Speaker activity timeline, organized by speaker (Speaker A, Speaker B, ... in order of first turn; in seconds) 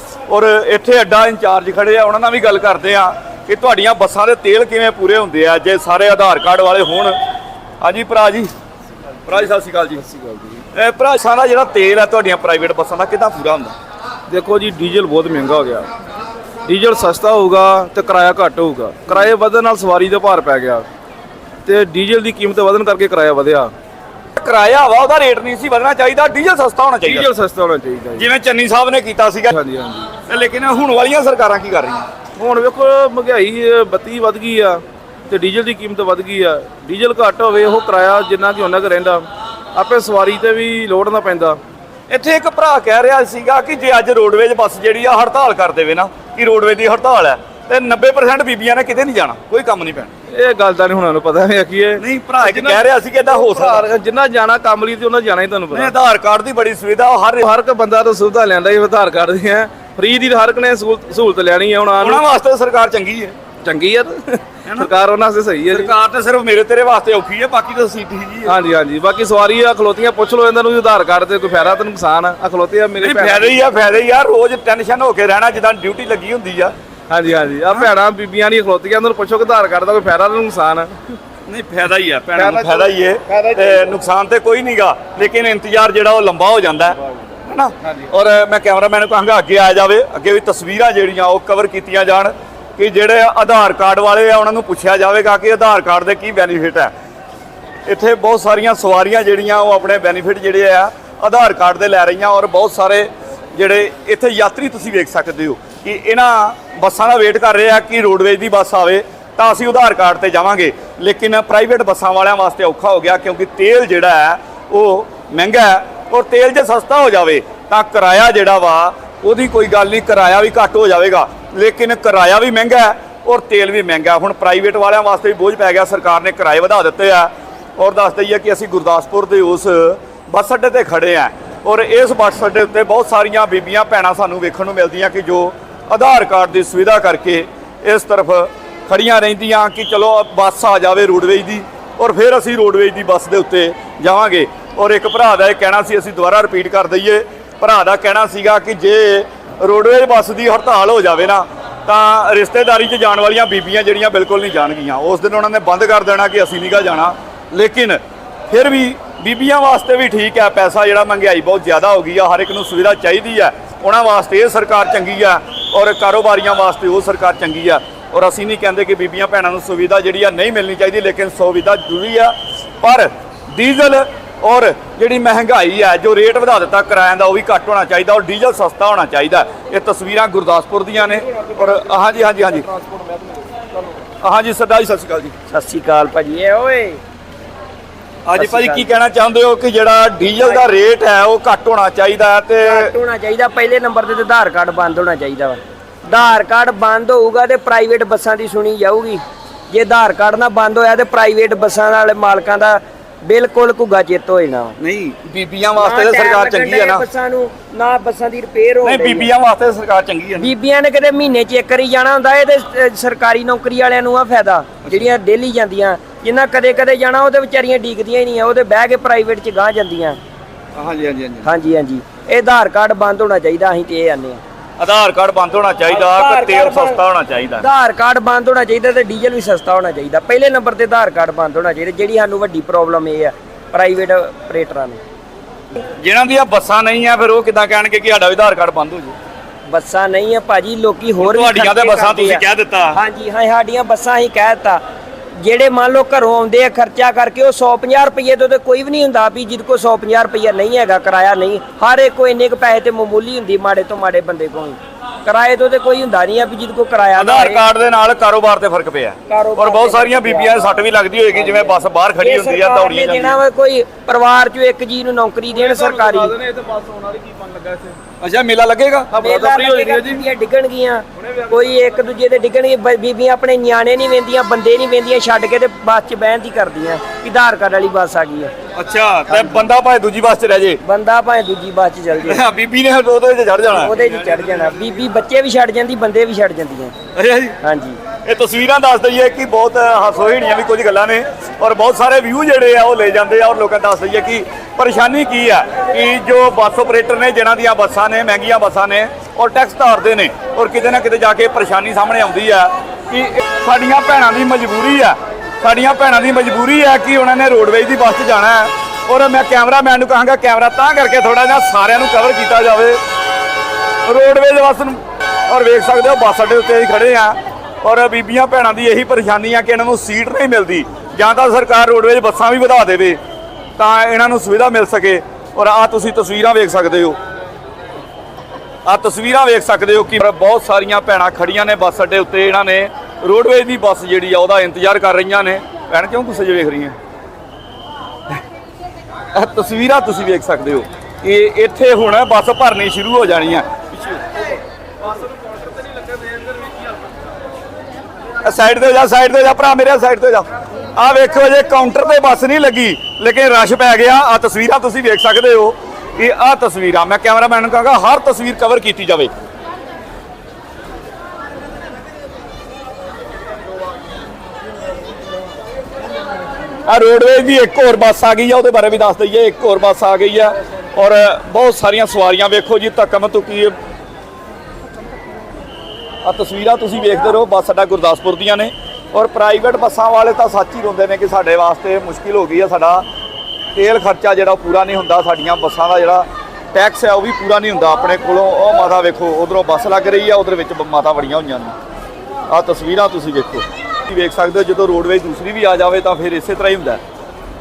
Speaker A: 0.3-7.2, 7.8-8.5, 9.2-10.0, 10.7-13.7, 24.3-27.3, 28.1-29.5, 30.2-32.0, 42.1-50.1, 52.0-53.9, 55.7-57.5, 62.0-63.4, 65.7-68.5, 73.0-76.7, 81.5-96.9, 97.8-182.7, 184.2-185.3, 188.2-192.9, 204.8-207.0, 208.8-210.5, 220.7-221.5, 224.8-227.7, 235.9-239.2, 241.2-243.0, 257.1-263.4, 268.2-269.1, 278.7-280.8, 282.2-284.6, 287.1-287.6, 288.2-313.0, 314.1-323.2, 323.8-327.2, 328.9-336.9, 339.3-344.4, 348.4-359.3, 366.9-373.7, 376.2-383.0, 383.7-391.7, 392.5-397.0
Speaker B: 10.0-10.6, 14.3-15.9, 16.6-20.9, 21.6-23.7, 27.0-28.3, 29.5-30.1, 32.4-41.6, 50.3-55.9, 57.4-62.2, 63.6-65.9, 68.4-73.6, 77.1-81.1, 82.3-84.0, 181.1-184.0, 265.5-268.0, 269.1-270.2, 271.2-272.0, 345.0-347.0
Speaker C: 185.5-187.0, 188.4-188.9, 190.3-190.7, 192.6-204.8, 205.8-209.3, 210.4-220.2, 221.4-224.4, 225.9-227.0, 227.6-235.0, 239.7-242.4, 242.9-244.8, 245.4-257.6, 259.3-260.6, 261.3-266.3, 269.2-278.5, 279.3-279.7, 280.8-282.4, 283.7-286.9, 287.6-288.0